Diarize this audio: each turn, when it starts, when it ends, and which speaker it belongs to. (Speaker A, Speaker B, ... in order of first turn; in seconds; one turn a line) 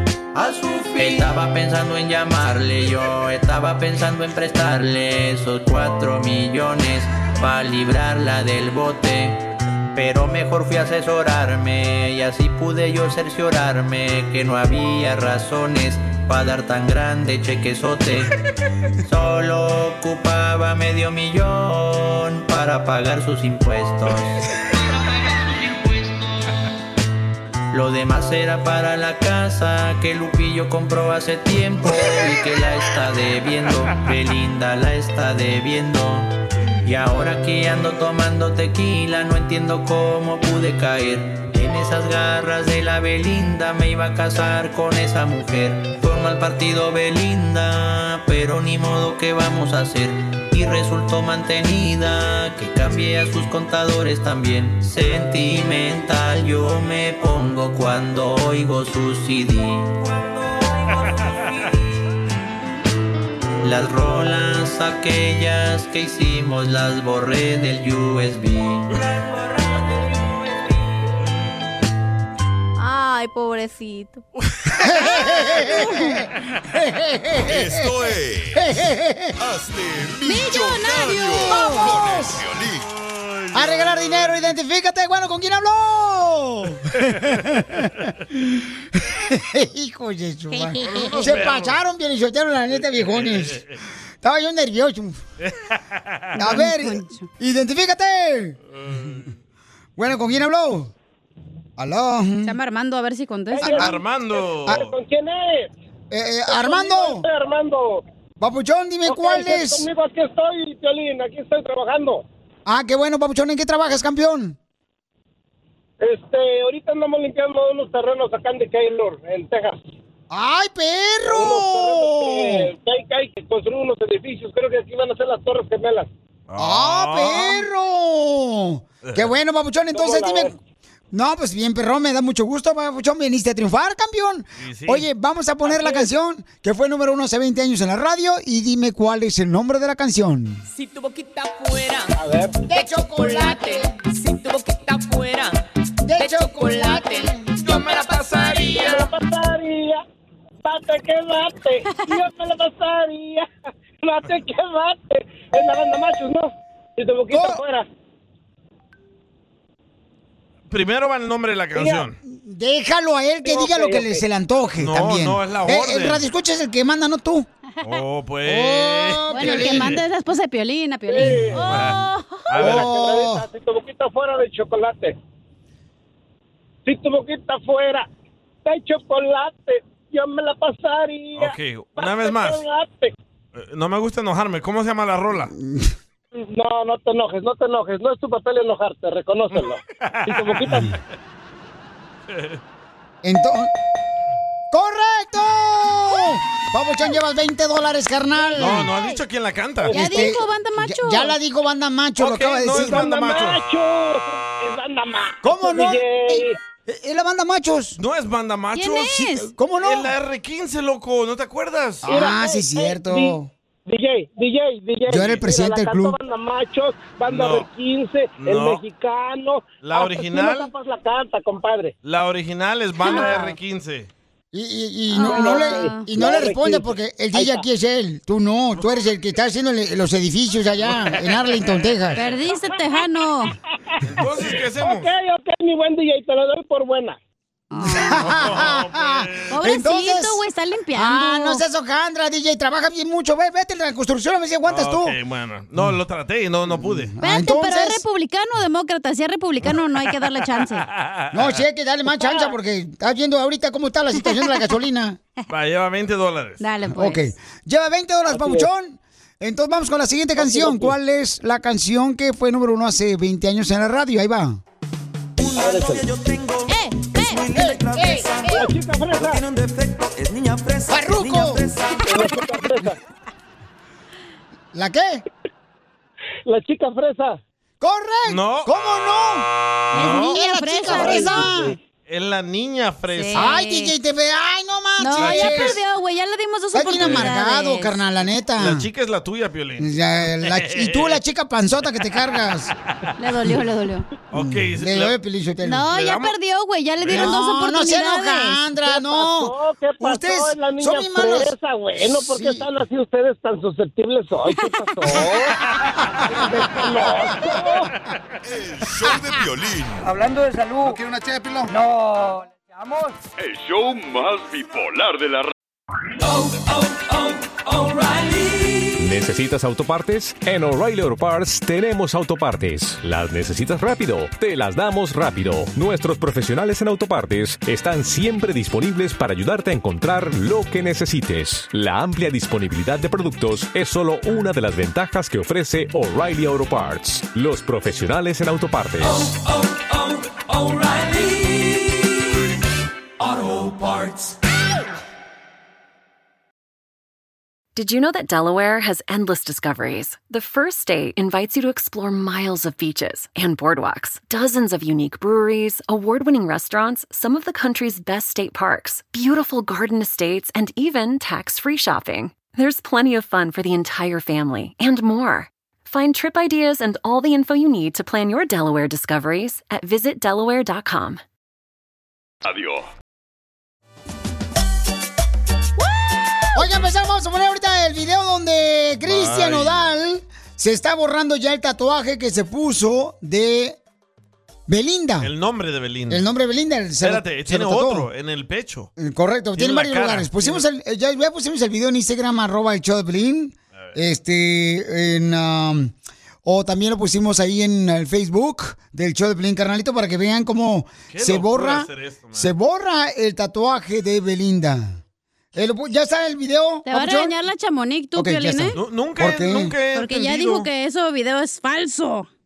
Speaker A: 0.3-18.3
Speaker A: 19.0-24.4
Speaker A: 25.5-26.1
Speaker A: 27.7-36.3
Speaker A: 36.8-60.0
Speaker A: 63.6-68.9
Speaker B: 72.8-74.2
Speaker C: 74.8-77.9
Speaker B: 75.0-76.2
Speaker D: 77.4-78.7
Speaker C: 78.5-79.3
Speaker D: 79.4-82.9
Speaker B: 80.2-82.0
Speaker C: 81.5-82.4
Speaker E: 83.2-84.5
Speaker C: 83.5-93.6
Speaker E: 87.0-87.4
Speaker B: 90.5-91.4
Speaker E: 90.8-91.8
Speaker E: 92.8-93.7
Speaker C: 94.2-95.2
Speaker E: 95.4-96.3
Speaker B: 96.3-97.3
Speaker C: 96.4-98.6
Speaker E: 98.8-99.3
Speaker C: 100.0-100.9
Speaker C: 101.8-102.5
Speaker B: 102.4-103.9
Speaker F: 103.5-103.8
Speaker E: 103.8-104.9
Speaker F: 104.7-105.7
Speaker C: 106.1-107.2
Speaker F: 106.5-108.0
Speaker C: 108.4-109.9
Speaker F: 109.0-112.2
Speaker C: 112.7-114.6
Speaker F: 116.0-119.8
Speaker C: 120.3-122.7
Speaker F: 121.3-126.1
Speaker E: 126.5-127.6
Speaker C: 126.6-130.5
Speaker E: 129.0-129.3
Speaker F: 129.9-130.5
Speaker C: 131.1-140.7
Speaker E: 134.6-135.1
Speaker F: 142.1-142.6
Speaker C: 142.7-143.9
Speaker G: 143.2-144.1
Speaker C: 146.0-147.5
Speaker G: 146.2-149.0
Speaker E: 147.7-148.0
Speaker E: 148.6-148.9
Speaker F: 148.8-150.0
Speaker F: 150.6-153.5
Speaker F: 154.0-157.8
Speaker C: 157.3-157.6
Speaker E: 160.7-162.2
Speaker F: 161.7-162.1
Speaker C: 162.2-167.5
Speaker F: 163.4-164.2
Speaker E: 164.8-166.2
Speaker E: 167.8-170.0
Speaker C: 168.4-170.0
Speaker B: 169.3-172.7
Speaker F: 171.1-171.6
Speaker C: 171.2-171.8
Speaker E: 171.7-173.0
Speaker C: 172.6-173.4
Speaker F: 172.8-175.2
Speaker F: 176.8-178.1
Speaker F: 178.6-183.1
Speaker E: 181.3-182.6
Speaker E: 183.6-185.5
Speaker C: 185.3-185.9
Speaker F: 186.3-190.8
Speaker E: 189.5-191.0
Speaker E: 192.3-192.6
Speaker C: 193.2-193.7
Speaker C: 194.7-198.9
Speaker B: 198.4-199.2
Speaker E: 198.6-200.0
Speaker B: 199.9-201.3
Speaker C: 199.9-203.1
Speaker E: 202.2-203.6
Speaker F: 202.7-206.6
Speaker C: 205.4-208.0
Speaker E: 208.0-212.0
Speaker B: 208.8-209.5
Speaker C: 209.6-210.1
Speaker C: 212.0-213.5
Speaker F: 212.1-221.9
Speaker C: 215.1-216.2
Speaker E: 217.2-217.7
Speaker E: 218.4-218.8
Speaker E: 219.8-220.7
Speaker E: 222.0-224.1
Speaker B: 223.0-223.6
Speaker C: 224.5-232.2
Speaker B: 225.1-226.1
Speaker F: 225.2-227.6
Speaker E: 230.8-231.6
Speaker B: 232.1-233.5
Speaker F: 232.5-233.0
Speaker E: 234.1-235.1
Speaker F: 234.8-237.2
Speaker B: 237.7-238.3
Speaker C: 237.8-240.4
Speaker E: 238.2-239.6
Speaker B: 239.5-241.6
Speaker C: 240.9-245.2
Speaker E: 244.7-247.1
Speaker C: 246.7-248.0
Speaker B: 247.2-250.8
Speaker E: 250.5-251.6
Speaker C: 251.3-255.2
Speaker F: 252.2-252.5
Speaker E: 255.5-256.6
Speaker B: 256.6-257.2
Speaker C: 256.9-264.6
Speaker F: 258.3-258.7
Speaker F: 260.4-260.9
Speaker F: 265.5-266.1
Speaker B: 266.7-267.6
Speaker C: 267.6-268.3
Speaker F: 268.4-269.4
Speaker C: 270.9-271.7
Speaker F: 271.9-273.0
Speaker C: 274.7-275.2
Speaker F: 276.4-277.4
Speaker C: 277.8-281.8
Speaker E: 278.3-278.8
Speaker E: 279.9-280.4
Speaker B: 279.9-281.6
Speaker F: 280.9-281.6
Speaker E: 282.1-283.5
Speaker B: 283.1-283.9
Speaker C: 283.3-285.8
Speaker B: 285.0-288.0
Speaker E: 285.1-285.8
Speaker C: 286.7-288.9
Speaker E: 287.0-287.3
Speaker E: 288.6-291.2
Speaker C: 289.8-292.7
Speaker B: 293.2-294.1
Speaker E: 294.3-295.2
Speaker C: 294.3-295.9
Speaker B: 295.6-298.6
Speaker E: 295.9-296.3
Speaker E: 297.0-297.4
Speaker C: 297.1-302.6
Speaker F: 298.9-305.6
Speaker B: 304.5-304.8
Speaker F: 306.3-307.9
Speaker D: 308.4-310.1
Speaker H: 310.0-311.0
Speaker H: 311.7-313.2
Speaker I: 313.4-315.5
Speaker J: 319.0-339.3
Speaker K: 347.7-371.2
Speaker I: 372.4-372.9
Speaker C: 376.5-383.8
Speaker E: 379.0-379.9
Speaker C: 384.7-385.3
Speaker E: 385.2-386.3
Speaker C: 386.1-388.1
Speaker E: 387.0-388.9
Speaker C: 389.0-405.0
Speaker E: 389.6-390.6
Speaker E: 401.1-402.5
Speaker C: 405.5-407.4
Speaker B: 406.9-408.8
Speaker C: 408.1-409.7
Speaker E: 408.7-410.7
Speaker B: 409.9-412.3